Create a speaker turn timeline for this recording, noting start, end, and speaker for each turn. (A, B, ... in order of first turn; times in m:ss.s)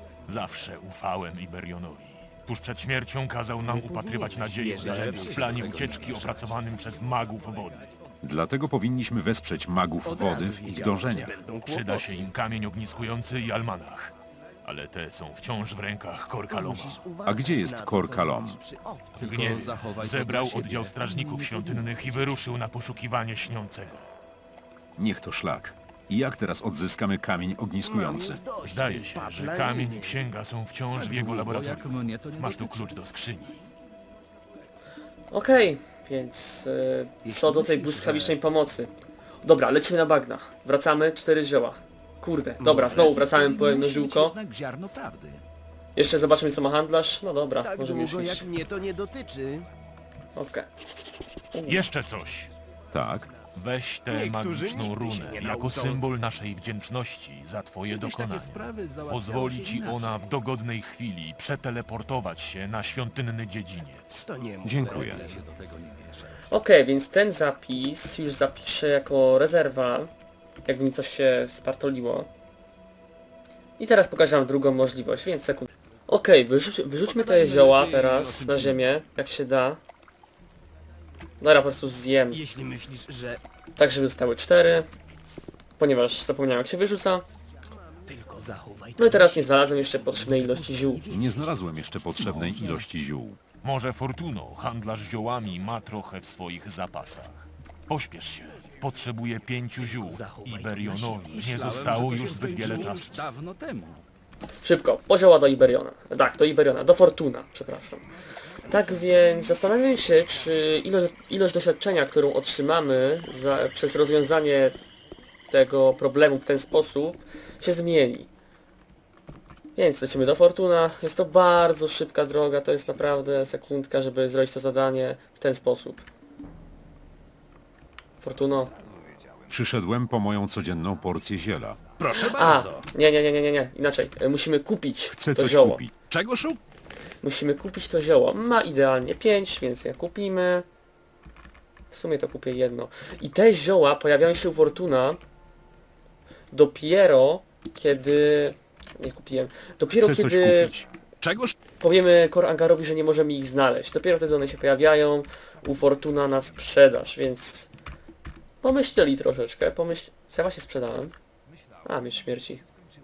0:00.3-0:07.9 A
0:03.6-0:06.3 B
0:04.7-0:06.5 C
0:08.2-0:11.4 D
0:10.0-0:12.2 B
0:11.6-0:17.1 A
0:16.5-0:19.9 B
0:17.3-0:18.6 D
0:19.1-0:22.0 C
0:19.2-0:24.1 A
0:25.0-0:28.4 D
0:27.8-0:30.3 B
0:28.6-0:33.6 A
0:30.9-0:32.9 C
0:35.3-0:38.9 E
0:37.2-0:38.4 C
0:39.4-0:44.4 E
0:42.6-0:43.2 B
0:42.9-0:45.4 C
0:46.0-0:48.5 E
0:47.6-0:49.7 B
0:50.4-0:50.7 E
0:51.5-0:51.9 E
0:51.7-0:52.5 A
0:52.9-0:53.3 D
0:53.5-1:04.3 A
0:54.1-0:56.1 B
0:57.9-1:00.3 C
1:04.2-1:05.4 B
1:04.6-1:05.2 D
1:04.9-1:06.3 C
1:06.5-1:10.1 E
1:10.6-1:12.3 E
1:13.8-1:19.8 E
1:17.0-1:18.8 C
1:21.4-1:22.4 E
1:22.3-1:23.4 B
1:23.8-1:24.9 E
1:25.8-1:27.2 E
1:27.7-1:31.6 B
1:29.0-1:31.0 E
1:31.1-1:33.4 D
1:32.2-1:32.8 C
1:33.6-1:43.2 A
1:39.8-1:43.0 B
1:41.2-1:44.0 C
1:44.6-1:48.0 E
1:48.6-1:54.8 E
1:48.9-1:49.6 B
1:55.5-1:58.3 E
1:59.8-2:06.0 E
2:08.2-2:08.7 E
2:09.5-2:11.8 D
2:11.9-2:12.9 C
2:12.1-2:15.8 E
2:15.2-2:16.0 D
2:16.1-2:16.6 C
2:17.2-2:20.6 E
2:21.9-2:25.2 E
2:26.5-2:30.7 E
2:30.0-2:30.9 D
2:31.2-2:31.6 C
2:31.8-2:37.7 E
2:38.6-2:41.2 E
2:41.8-2:42.6 E